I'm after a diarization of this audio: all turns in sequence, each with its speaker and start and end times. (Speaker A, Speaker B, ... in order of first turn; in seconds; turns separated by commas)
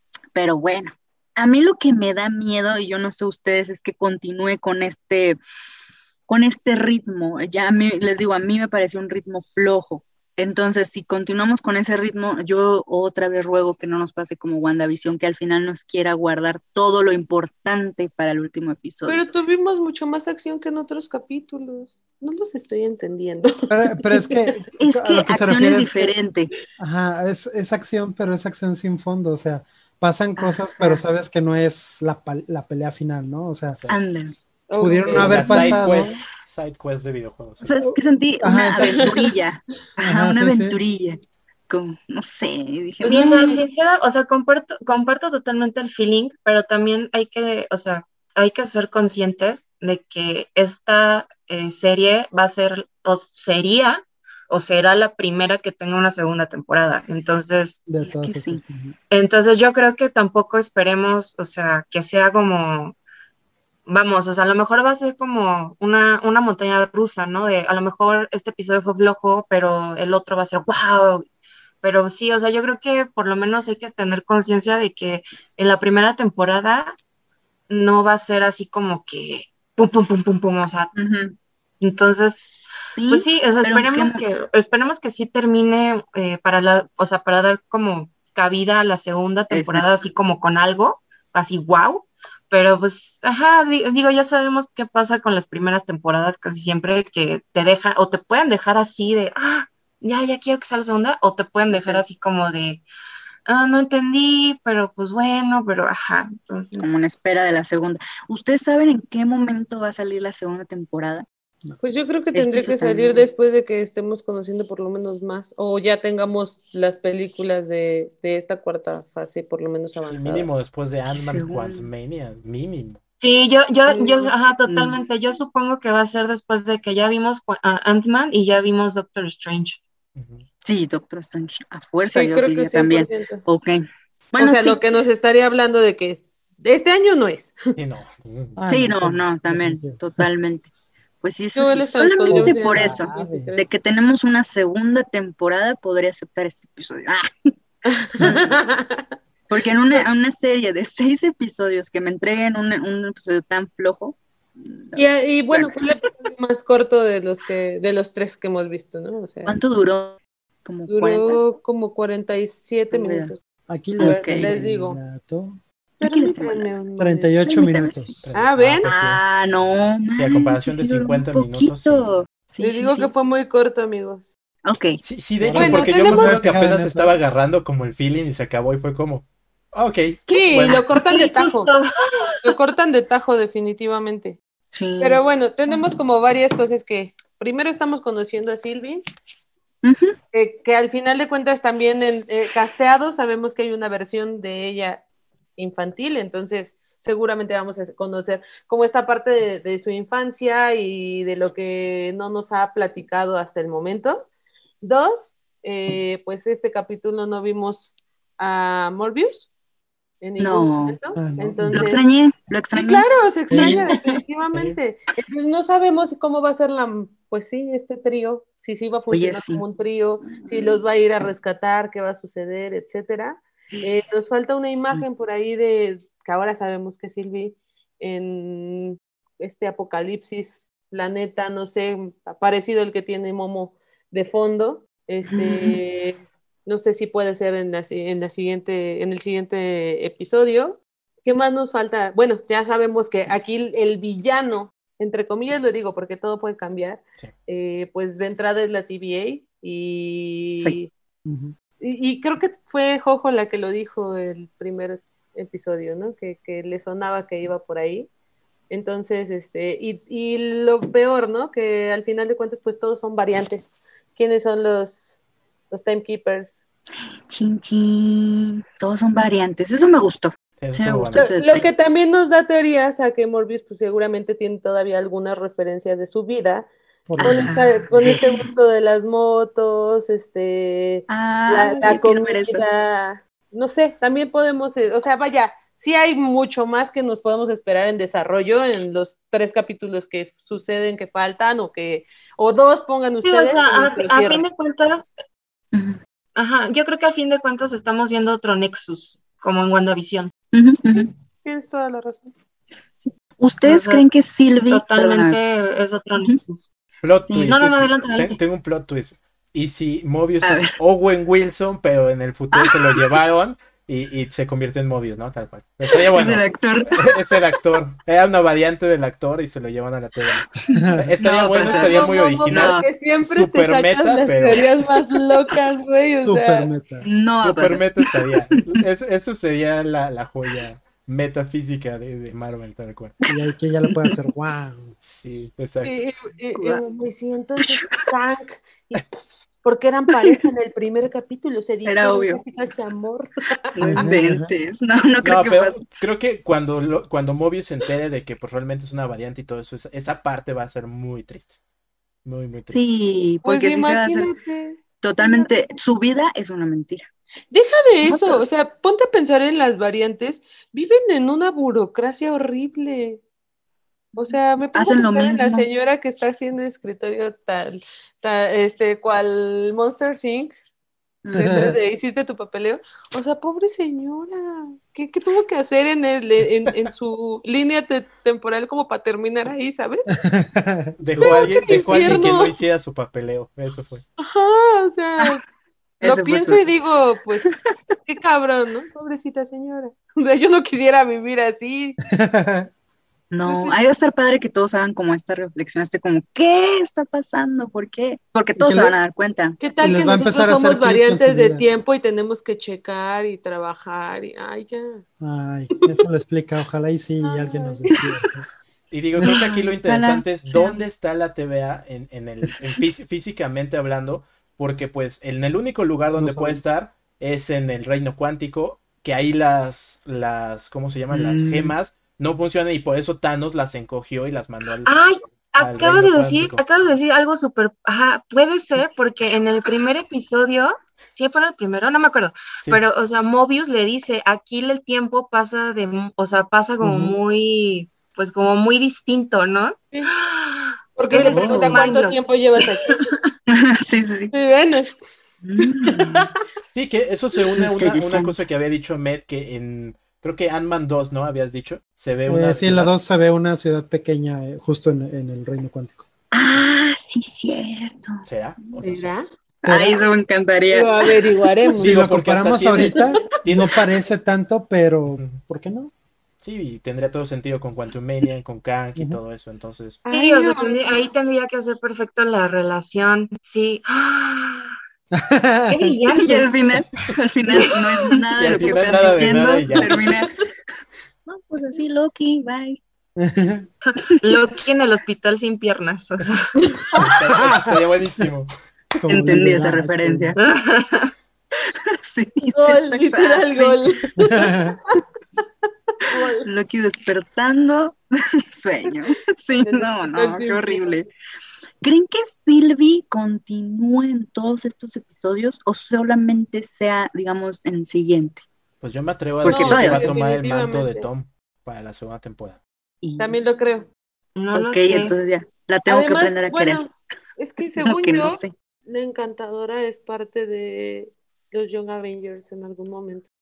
Speaker A: 0.3-5.4, Speaker A: 6.3-19.2, Speaker B: 19.1-24.3, Speaker C: 23.7-26.1, Speaker A: 24.8-26.5, Speaker C: 26.8-33.8, Speaker A: 30.4-31.0, Speaker D: 33.8-34.2, Speaker A: 33.9-34.4, Speaker B: 34.7-35.8, Speaker C: 34.8-36.2, Speaker D: 35.1-37.7, Speaker A: 35.2-35.8, Speaker A: 37.6-43.6, Speaker C: 37.8-39.2, Speaker C: 40.0-40.8, Speaker E: 43.0-57.9, Speaker B: 43.0-43.5, Speaker C: 57.9-58.9, Speaker A: 58.0-58.6, Speaker E: 59.1-63.0, Speaker E: 63.9-71.2, Speaker E: 71.8-76.9, Speaker E: 77.7-80.9, Speaker A: 80.9-81.4, Speaker E: 81.8-82.6, Speaker A: 82.5-84.2, Speaker E: 83.1-102.8, Speaker A: 89.5-89.8, Speaker A: 101.7-102.0, Speaker E: 103.5-106.9, Speaker A: 106.8-111.2, Speaker B: 111.8-120.5, Speaker A: 112.3-113.2, Speaker D: 120.1-123.0, Speaker A: 121.1-121.9, Speaker E: 123.2-129.8, Speaker B: 123.9-124.3, Speaker A: 124.7-125.0, Speaker D: 130.1-130.4, Speaker A: 130.6-134.8, Speaker B: 132.1-133.4, Speaker B: 134.4-137.6, Speaker D: 137.8-138.6, Speaker C: 138.6-140.1, Speaker A: 138.7-140.7, Speaker A: 141.2-147.5, Speaker B: 141.5-143.7, Speaker C: 142.3-143.5, Speaker B: 147.8-149.1, Speaker A: 148.1-148.6, Speaker A: 149.5-155.8, Speaker B: 154.9-159.6, Speaker A: 159.4-161.4, Speaker B: 160.9-163.4, Speaker A: 162.9-163.3, Speaker C: 163.7-165.6, Speaker A: 164.0-164.5, Speaker B: 164.0-165.0, Speaker A: 166.0-166.8, Speaker B: 166.0-167.3, Speaker C: 167.0-168.2, Speaker A: 167.4-168.2, Speaker D: 168.2-172.2, Speaker B: 168.3-168.9, Speaker A: 168.8-173.1, Speaker B: 172.6-174.3, Speaker A: 174.6-175.0, Speaker D: 175.0-180.8, Speaker C: 175.4-177.1, Speaker B: 175.5-176.4, Speaker B: 180.3-181.7, Speaker E: 181.0-182.5, Speaker B: 182.4-184.4, Speaker A: 184.7-185.2, Speaker B: 185.0-189.0, Speaker A: 189.8-190.2, Speaker B: 190.3-195.0, Speaker B: 195.6-204.3, Speaker B: 204.8-209.5, Speaker B: 210.2-212.0, Speaker A: 210.4-211.0, Speaker C: 211.2-211.9, Speaker A: 211.7-214.2, Speaker B: 212.7-250.9, Speaker C: 213.5-213.8, Speaker D: 214.5-214.8, Speaker A: 219.1-219.6, Speaker A: 220.2-220.8, Speaker A: 235.3-235.8, Speaker C: 251.2-251.5, Speaker B: 251.8-258.1, Speaker B: 258.7-265.1, Speaker B: 265.7-266.6, Speaker A: 267.3-271.7, Speaker D: 270.6-271.3, Speaker B: 271.1-276.7, Speaker C: 277.1-277.5, Speaker A: 277.2-278.5, Speaker B: 277.2-294.4, Speaker A: 281.1-282.6, Speaker E: 293.2-295.1, Speaker A: 295.7-296.0, Speaker E: 296.4-300.3, Speaker A: 300.5-301.1, Speaker B: 301.4-302.3, Speaker A: 303.0-305.4, Speaker E: 303.6-304.0, Speaker E: 304.7-306.7, Speaker D: 307.0-324.7, Speaker A: 307.2-307.6, Speaker E: 307.5-308.4, Speaker A: 310.4-310.7, Speaker A: 312.5-312.8, Speaker A: 316.1-317.1, Speaker C: 320.7-321.1, Speaker A: 321.2-322.9, Speaker B: 321.6-326.7, Speaker C: 326.1-327.1, Speaker A: 327.0-328.3, Speaker D: 327.4-333.2, Speaker C: 333.3-334.9, Speaker D: 335.0-336.1, Speaker B: 335.8-339.1, Speaker A: 336.5-336.8, Speaker B: 339.6-344.1, Speaker A: 341.8-342.4, Speaker A: 343.7-345.9, Speaker C: 343.8-344.5, Speaker D: 345.2-351.5, Speaker D: 352.2-352.8, Speaker A: 352.7-354.3, Speaker B: 353.4-355.5, Speaker A: 355.0-357.1, Speaker B: 357.5-363.2, Speaker A: 358.0-358.5, Speaker B: 364.1-370.5, Speaker A: 364.3-365.6, Speaker A: 371.2-371.7, Speaker C: 371.3-371.8, Speaker B: 371.3-380.1, Speaker C: 380.2-382.2, Speaker D: 381.0-384.0, Speaker B: 381.2-382.5, Speaker B: 384.2-385.4, Speaker A: 386.0-386.7, Speaker B: 386.0-387.5, Speaker B: 388.1-392.0, Speaker C: 392.1-392.7, Speaker A: 393.3-399.6, Speaker B: 393.4-393.8, Speaker C: 398.6-398.9, Speaker B: 399.6-405.0, Speaker C: 399.8-401.7, Speaker C: 405.2-408.4, Speaker B: 407.2-408.0, Speaker D: 408.9-424.9, Speaker A: 409.2-410.9, Speaker C: 416.1-416.6, Speaker A: 421.1-421.7, Speaker E: 424.8-442.2, Speaker D: 425.6-426.6, Speaker B: 440.9-443.0, Speaker A: 441.1-441.8, Speaker A: 442.9-444.3, Speaker B: 444.3-445.0, Speaker A: 445.4-446.3, Speaker B: 445.9-446.3, Speaker D: 446.7-452.9, Speaker A: 447.6-448.4, Speaker C: 452.3-456.1, Speaker A: 456.3-458.8, Speaker D: 458.2-459.1, Speaker B: 458.8-459.3, Speaker C: 459.6-460.0, Speaker A: 459.6-461.1, Speaker B: 460.7-462.0, Speaker C: 461.7-465.9, Speaker D: 461.8-463.8, Speaker D: 465.1-465.4, Speaker D: 466.4-470.0, Speaker B: 470.1-471.0, Speaker E: 470.1-474.7, Speaker C: 475.1-475.9, Speaker E: 475.7-476.5, Speaker A: 476.1-480.3, Speaker D: 478.4-480.1, Speaker B: 478.6-479.3, Speaker A: 481.2-482.8, Speaker C: 483.2-483.7, Speaker E: 483.9-486.5, Speaker D: 487.0-488.5, Speaker C: 487.4-488.3, Speaker C: 488.9-490.4, Speaker A: 489.1-490.4, Speaker E: 490.4-491.1, Speaker A: 492.0-493.8, Speaker B: 492.5-494.9, Speaker C: 494.2-494.8, Speaker B: 496.0-496.4, Speaker A: 496.4-501.1, Speaker B: 499.6-501.0, Speaker A: 501.8-508.4, Speaker D: 508.8-512.6, Speaker A: 509.4-510.1, Speaker B: 509.4-511.1, Speaker A: 513.0-513.4, Speaker B: 513.2-513.9, Speaker E: 514.4-515.1, Speaker A: 514.5-516.8, Speaker B: 515.9-523.3, Speaker A: 517.6-518.5